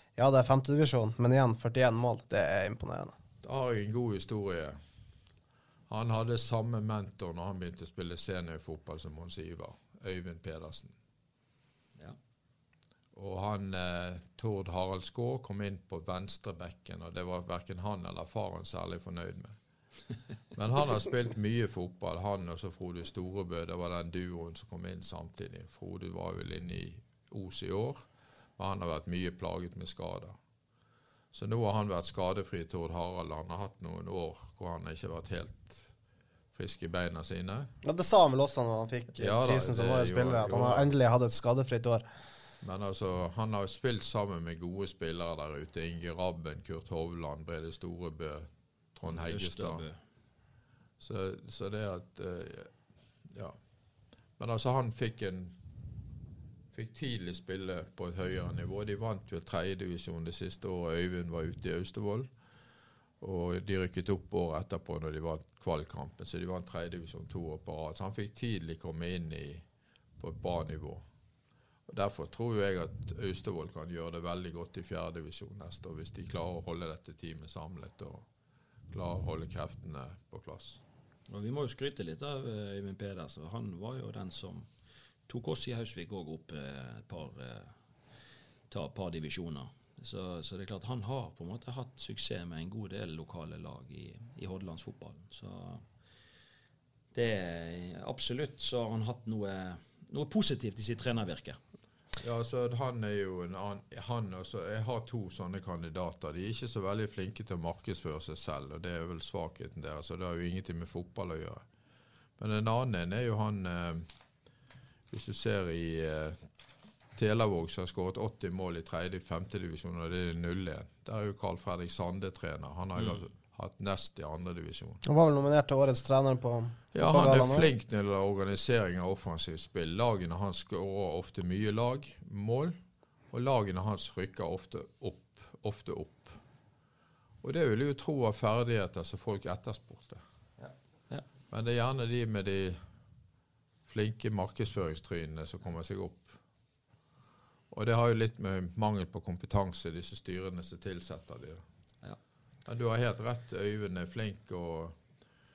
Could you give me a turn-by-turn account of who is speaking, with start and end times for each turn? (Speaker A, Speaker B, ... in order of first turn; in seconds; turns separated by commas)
Speaker A: 0.2-3.1, Speaker B: 3.4-4.8, Speaker B: 5.9-10.9, Speaker B: 13.1-19.6, Speaker B: 20.5-28.1, Speaker B: 28.6-30.4, Speaker B: 31.3-35.9, Speaker B: 36.5-37.7, Speaker A: 37.8-42.1, Speaker B: 39.2-40.9, Speaker B: 42.6-49.9, Speaker C: 49.1-50.0, Speaker B: 51.0-52.7, Speaker B: 53.3-53.6, Speaker B: 54.4-55.5, Speaker B: 56.7-62.3, Speaker B: 63.2-69.7, Speaker B: 70.2-71.0, Speaker B: 71.9-78.2, Speaker B: 78.9-80.8, Speaker C: 81.3-84.7, Speaker C: 85.3-87.7, Speaker C: 88.7-95.8, Speaker C: 97.1-101.6, Speaker B: 102.2-111.6, Speaker B: 112.4-114.1, Speaker B: 115.1-116.4, Speaker B: 117.2-125.0, Speaker A: 125.0-127.7, Speaker B: 126.9-132.8, Speaker B: 133.3-136.4, Speaker B: 137.4-140.2, Speaker C: 140.6-141.2, Speaker B: 141.5-142.8, Speaker B: 143.9-146.4, Speaker B: 147.7-151.6, Speaker B: 152.7-155.0